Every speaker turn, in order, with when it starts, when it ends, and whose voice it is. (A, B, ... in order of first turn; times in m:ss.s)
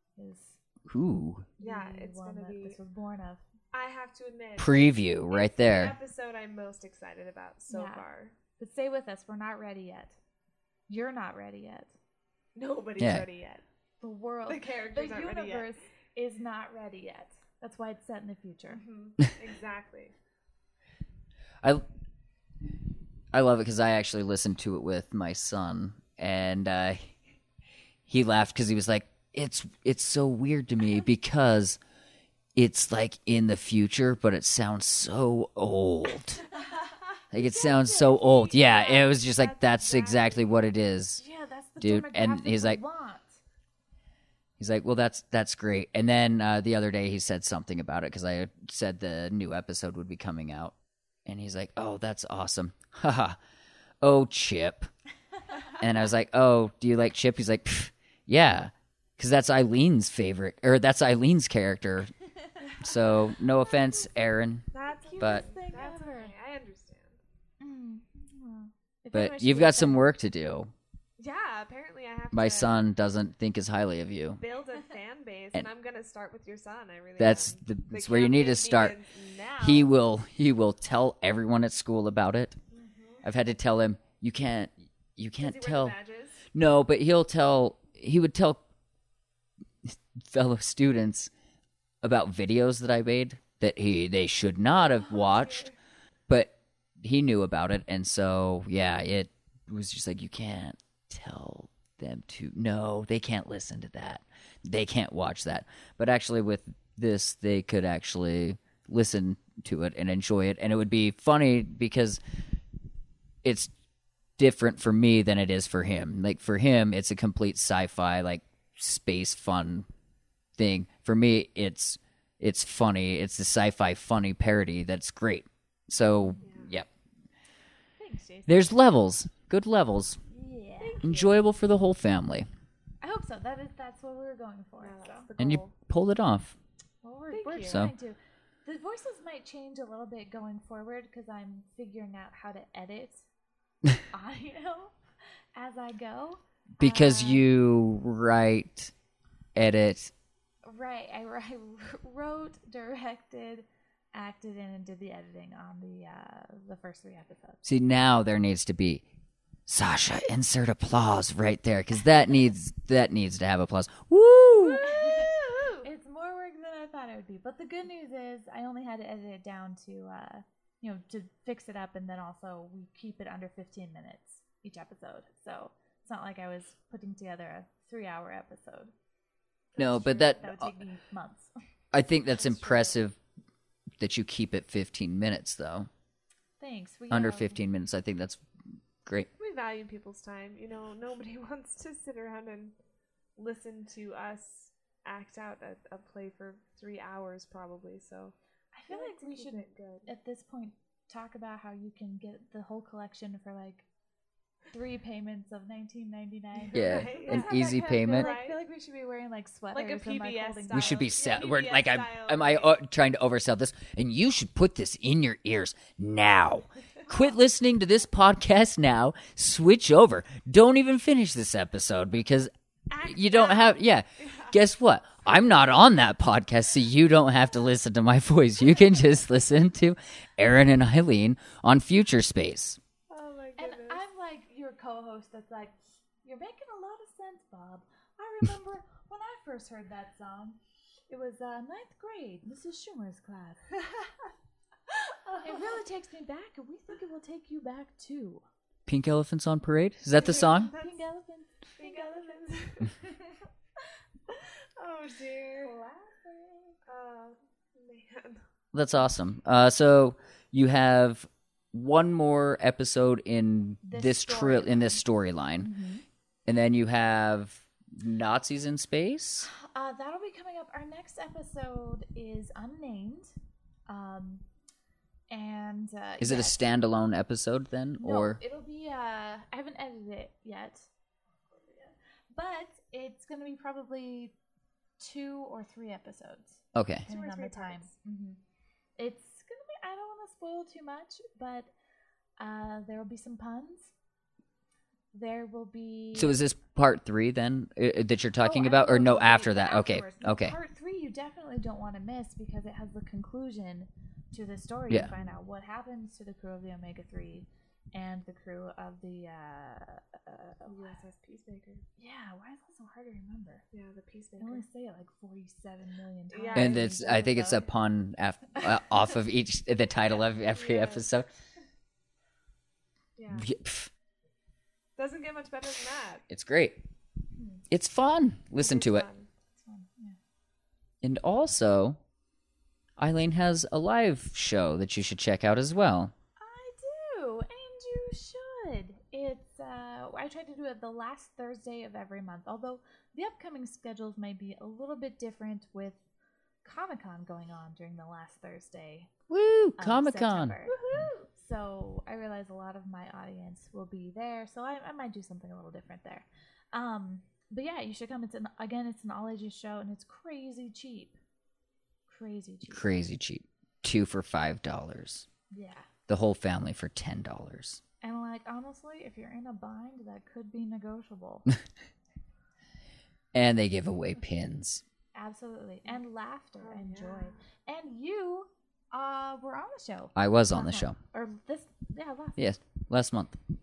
0:00.2-0:00.6 A
0:00.9-0:01.5 B
0:01.6-0:03.5 A
0:01.6-0:02.8 C
0:03.7-0:08.4 C
0:04.6-0:06.0 B
0:07.7-0:08.0 A
0:08.6-0:10.2 A
0:10.9-0:11.9 A
0:12.6-0:13.6 C
0:13.0-0:13.2 B
0:14.0-0:18.8 A
0:14.5-0:15.7 C
0:18.7-0:20.1 C
0:23.3-0:27.1 B
0:28.1-0:31.8 B
0:32.6-0:36.4 B
0:37.3-0:41.2 B
0:37.4-0:40.7 C
0:41.2-0:43.4 A
0:41.8-0:42.8 B
0:44.6-0:50.8 B
0:51.3-0:53.4 B
0:54.0-0:54.9 B
0:55.8-1:02.1 B
1:02.6-1:03.3 C
1:02.8-1:04.7 B
1:04.7-1:07.2 C
1:04.8-1:06.3 A
1:07.6-1:10.1 A
1:09.1-1:10.7 B
1:11.2-1:12.9 C
1:12.3-1:14.4 B
1:14.4-1:19.9 C
1:17.2-1:19.0 B
1:19.6-1:22.6 B
1:22.7-1:23.3 C
1:23.2-1:26.0 B
1:25.4-1:26.4 C
1:26.5-1:28.6 B
1:29.9-1:31.3 B
1:32.0-1:35.7 B
1:34.7-1:35.8 C
1:36.3-1:52.2 B
1:53.4-1:53.7 B
1:54.4-1:59.9 B
2:00.6-2:06.9 B
2:06.2-2:06.5 A
2:06.4-2:06.7 C
2:08.0-2:08.8 A
2:08.5-2:10.2 B
2:10.3-2:11.1 A
2:10.8-2:11.4 C
2:11.0-2:12.5 B
2:13.0-2:15.3 A
2:14.8-2:15.7 C
2:15.4-2:16.6 B
2:17.0-2:23.3 A
2:17.3-2:17.9 C
2:17.6-2:17.9 B
2:24.1-2:24.9 A
2:25.6-2:27.5 A
2:26.8-2:28.9 B
2:29.6-2:30.1 B
2:30.7-2:37.6 A
2:37.6-2:39.0 B
2:39.7-2:44.9 B
2:44.8-2:45.9 C
2:44.8-2:58.9 A
2:59.8-3:00.4 C
2:59.8-3:00.7 B
2:59.8-3:01.5 A
3:01.9-3:03.2 B
3:02.3-3:03.0 C
3:04.0-3:05.9 B
3:06.6-3:07.7 A
3:07.1-3:08.4 B
3:09.4-3:12.8 C
3:13.4-3:18.4 C
3:18.7-3:23.9 A
3:18.9-3:20.1 C
3:24.7-3:31.1 A
3:26.6-3:28.6 C
3:26.7-3:28.4 B
3:29.7-3:32.8 C
3:30.7-3:42.5 B
3:42.9-3:44.6 C
3:43.0-3:52.8 B
3:53.1-3:54.0 C
3:53.6-4:00.6 A
4:01.1-4:03.7 A
4:05.3-4:05.8 C
4:05.4-4:08.4 A
4:08.9-4:10.7 B
4:10.2-4:11.0 C
4:10.2-4:13.3 A
4:11.8-4:13.0 C
4:14.3-4:15.7 C
4:15.6-4:16.8 A
4:16.9-4:18.4 C
4:18.7-4:25.7 B
4:23.8-4:25.1 A
4:25.6-4:26.0 A
4:26.5-4:29.5 B
4:29.5-4:33.3 A
4:33.9-4:34.4 A
4:35.3-4:36.7 A
4:36.2-4:38.4 B
4:38.0-4:40.9 A
4:41.6-4:44.4 A
4:45.0-4:48.4 A
4:46.7-4:47.1 B
4:47.1-4:47.9 C
4:49.0-4:51.7 A
4:52.4-4:53.9 A
4:55.1-4:56.4 A
4:56.2-5:00.6 B
4:58.4-5:11.0 A
5:10.7-5:11.8 C
5:12.0-5:13.6 A
5:13.7-5:14.6 C
5:14.4-5:17.7 A
5:16.3-5:16.9 C
5:16.5-5:21.3 B
5:20.4-5:21.1 C
5:23.2-5:23.5 C
5:23.3-5:23.9 B
5:25.0-5:26.2 C
5:26.3-5:26.8 B
5:27.4-5:27.6 A
5:27.7-5:29.1 B
5:28.6-5:29.3 C
5:29.5-5:30.2 A
5:31.0-5:32.0 B
5:33.0-5:36.1 B
5:36.4-5:46.0 A
5:46.6-5:49.1 A
5:49.3-5:51.0 B
5:49.8-5:50.8 A
5:50.7-5:51.3 C
5:51.3-6:01.2 A
6:02.1-6:03.0 A
6:02.7-6:05.3 B
6:05.5-6:05.9 A
6:06.1-6:07.8 B
6:08.0-6:11.5 A
6:13.3-6:14.8 B
6:15.2-6:22.4 A
6:16.6-6:17.4 C
6:20.2-6:21.0 B
6:22.4-6:23.4 B